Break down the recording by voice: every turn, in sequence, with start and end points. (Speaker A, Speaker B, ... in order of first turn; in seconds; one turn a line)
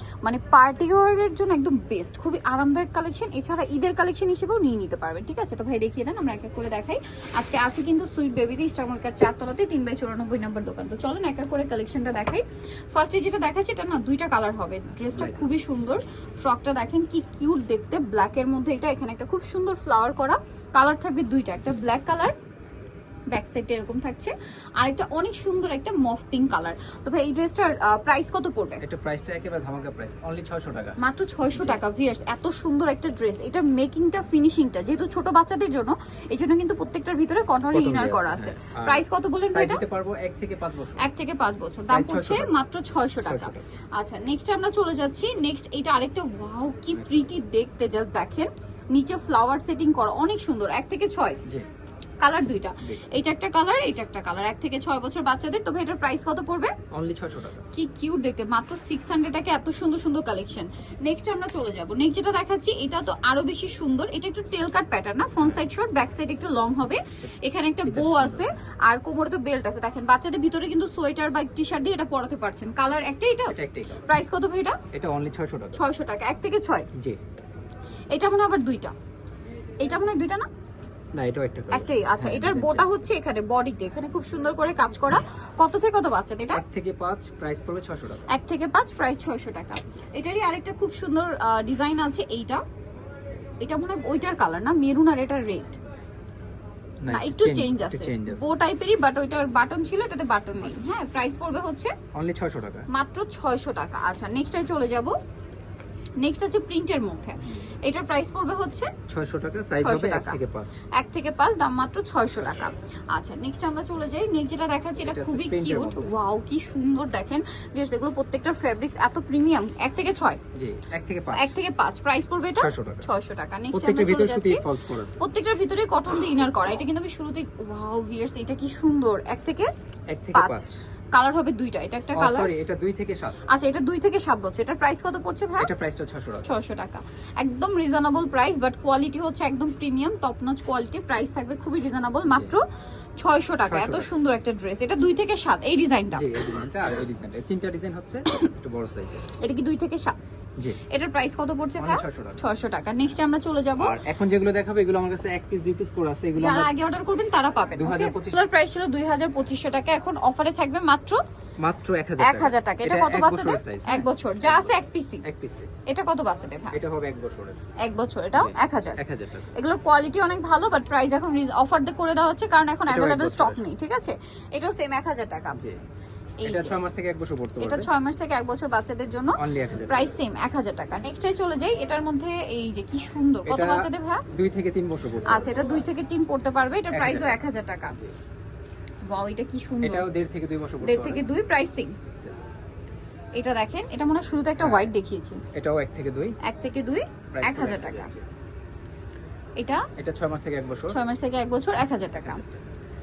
Speaker A: 0.2-22.3
Speaker B: 15.1-15.5
Speaker A: 23.3-28.8
Speaker B: 28.8-31.0
Speaker A: 31.0-39.8
Speaker B: 31.5-31.8
Speaker B: 37.7-41.1
Speaker A: 41.0-51.4
Speaker B: 41.9-42.5
Speaker B: 43.2-43.6
Speaker B: 46.9-47.2
Speaker A: 52.2-56.7
Speaker B: 56.9-57.6
Speaker A: 57.7-73.5
Speaker B: 67.8-68.5
Speaker B: 73.5-74.1
Speaker A: 74.1-74.8
Speaker B: 74.9-75.8
Speaker A: 75.7-76.9
Speaker A: 78.1-78.9
Speaker A: 79.8-80.5
Speaker B: 81.2-83.0
Speaker A: 81.7-86.6
Speaker B: 86.5-88.3
Speaker A: 88.3-92.6
Speaker A: 93.6-95.8
Speaker B: 97.0-98.4
Speaker A: 97.1-101.9
Speaker B: 102.1-102.8
Speaker A: 102.9-105.2
Speaker A: 106.2-108.9
Speaker B: 107.4-107.7
Speaker B: 109.1-110.8
Speaker A: 109.8-110.4
Speaker A: 110.9-120.4
Speaker B: 115.0-116.1
Speaker B: 120.5-121.5
Speaker A: 121.3-124.7
Speaker B: 122.6-123.1
Speaker B: 123.7-125.2
Speaker A: 125.2-129.7
Speaker B: 130.1-130.7
Speaker A: 130.3-132.5
Speaker B: 132.1-133.4
Speaker A: 133.5-135.7
Speaker B: 135.6-136.5
Speaker A: 136.4-142.6
Speaker B: 142.3-142.5
Speaker A: 143.2-146.4
Speaker B: 143.7-144.1
Speaker B: 146.1-149.3
Speaker A: 149.4-150.2
Speaker A: 150.9-153.9
Speaker B: 151.8-152.4
Speaker B: 153.8-156.7
Speaker A: 156.3-161.2
Speaker B: 157.8-158.4
Speaker B: 161.6-165.7
Speaker A: 162.2-165.2
Speaker A: 165.9-166.7
Speaker B: 166.7-167.6
Speaker A: 167.8-169.0
Speaker B: 168.3-169.5
Speaker A: 169.5-175.6
Speaker B: 172.9-173.6
Speaker A: 176.4-176.8
Speaker B: 176.4-177.9
Speaker A: 177.6-179.3
Speaker B: 179.3-180.2
Speaker A: 179.9-184.2
Speaker B: 183.4-185.8
Speaker A: 185.2-187.9
Speaker B: 186.9-187.4
Speaker A: 189.1-190.1
Speaker B: 189.8-191.2
Speaker A: 190.8-191.9
Speaker B: 192.1-192.4
Speaker A: 193.4-195.4
Speaker B: 194.6-194.9
Speaker B: 195.5-196.3
Speaker A: 196.4-198.1
Speaker B: 197.3-198.2
Speaker A: 199.6-199.8
Speaker B: 200.0-201.0
Speaker A: 200.9-202.4
Speaker B: 202.2-202.6